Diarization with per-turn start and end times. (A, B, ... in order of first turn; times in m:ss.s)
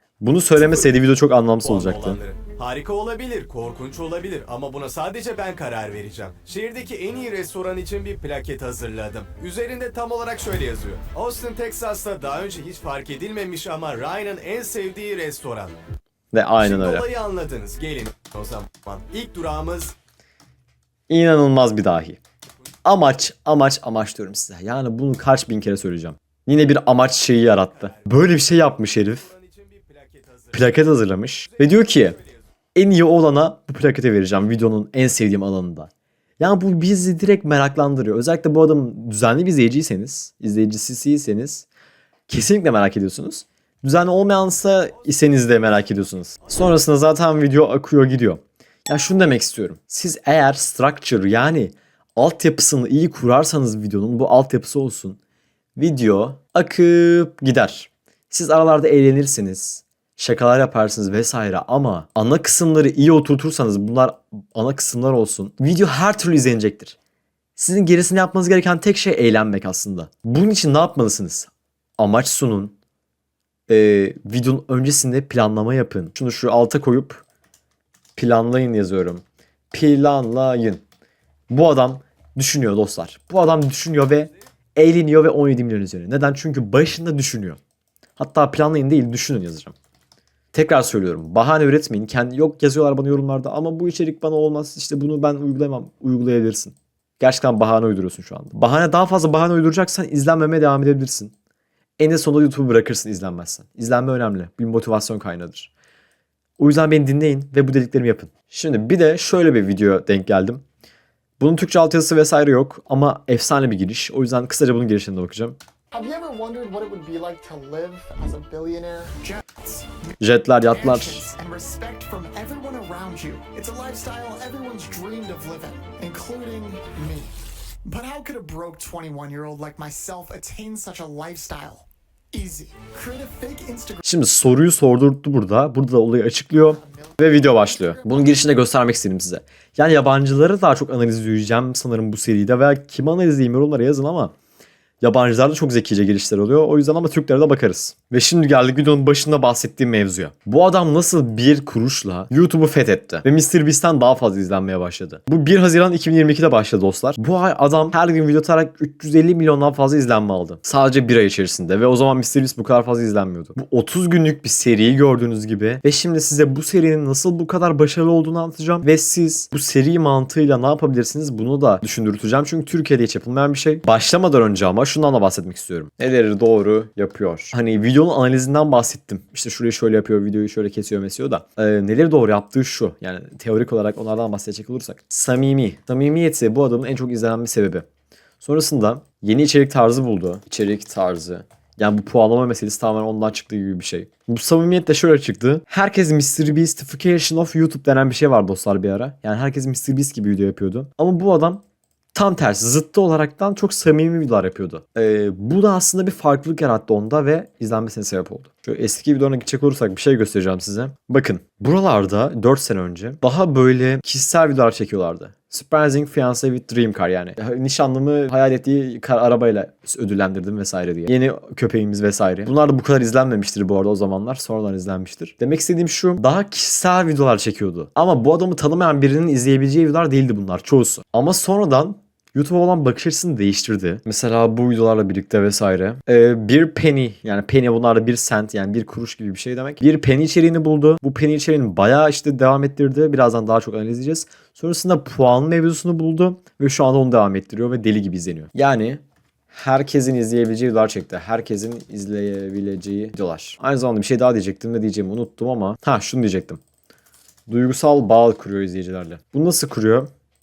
0:00.2-0:02.2 A
0:00.6-0:00.9 B
0:01.6-0:15.7 B
0:16.3-0:17.1 A
0:16.6-0:19.9 B
0:21.1-0:22.2 A
0:22.8-0:29.3 A
0:27.4-0:30.9 B
0:30.5-0:32.2 A
0:31.4-0:32.4 B
0:32.7-0:41.7 A
0:42.3-0:55.2 A
0:45.1-0:46.8 B
0:55.8-1:07.0 A
1:07.6-1:12.7 A
1:13.7-1:17.2 A
1:18.2-1:20.8 A
1:21.5-1:27.6 A
1:28.2-1:29.7 A
1:30.5-1:41.3 A
1:42.0-1:45.7 A
1:46.6-1:50.6 A
1:51.4-1:55.6 A
1:55.9-1:59.9 C
2:00.2-2:01.3 A
2:00.7-2:07.3 C
2:07.8-2:14.0 C
2:14.0-2:24.3 A
2:16.5-2:18.4 C
2:25.0-3:07.8 A
3:08.4-3:21.6 A
3:22.1-4:16.6 A
4:17.5-4:20.1 A